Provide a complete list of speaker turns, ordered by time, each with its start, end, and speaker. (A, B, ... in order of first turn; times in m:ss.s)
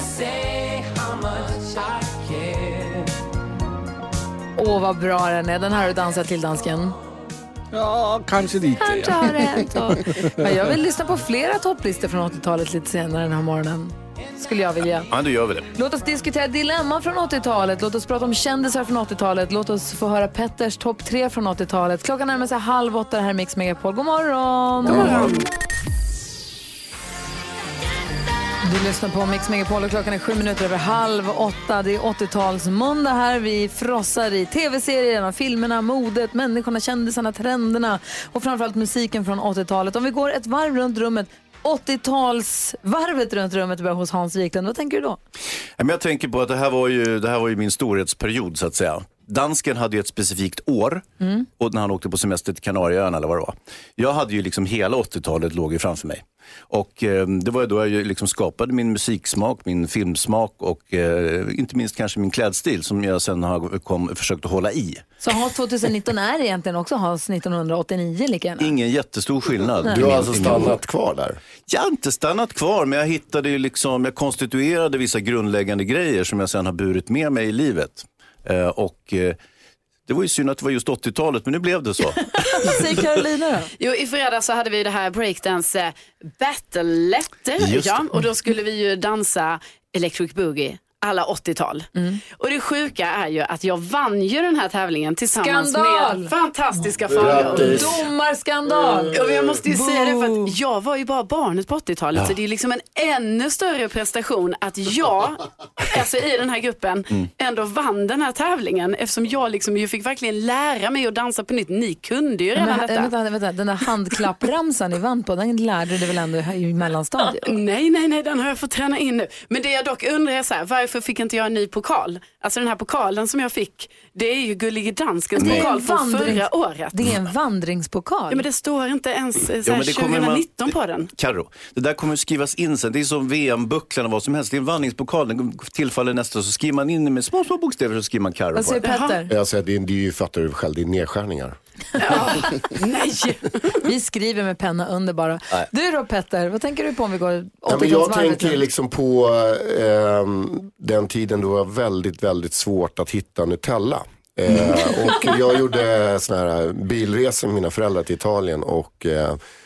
0:04.6-0:06.9 A
0:07.7-0:10.6 B
0:08.8-0:15.1 A
0:15.1-0:15.7 C
0:15.7-0:25.4 A
0:24.9-0:25.4 C
0:24.9-0:25.4 D
0:28.6-0:45.2 A
0:45.8-0:51.0 C
0:51.6-1:05.0 C
1:05.2-1:08.7 A
1:08.6-1:10.7 C
1:09.9-1:11.4 E
1:11.7-1:19.4 C
1:20.0-1:22.8 C
1:22.3-1:23.7 A
1:23.8-1:37.9 D
1:27.6-1:28.1 C
1:31.9-1:32.2 A
1:35.4-1:36.3 A
1:37.1-1:38.0 E
1:37.4-1:40.5 A
1:38.8-1:39.5 E
1:39.1-1:53.1 D
1:52.5-1:57.5 A
1:57.4-2:06.9 D
2:05.4-2:08.4 A
2:08.3-2:11.1 D
2:09.6-2:18.8 C
2:18.5-2:19.3 A
2:18.8-2:19.2 D
2:19.3-2:21.6 E
2:22.0-2:23.8 D
2:22.0-2:22.4 A
2:23.8-2:28.6 A
2:27.7-2:39.4 E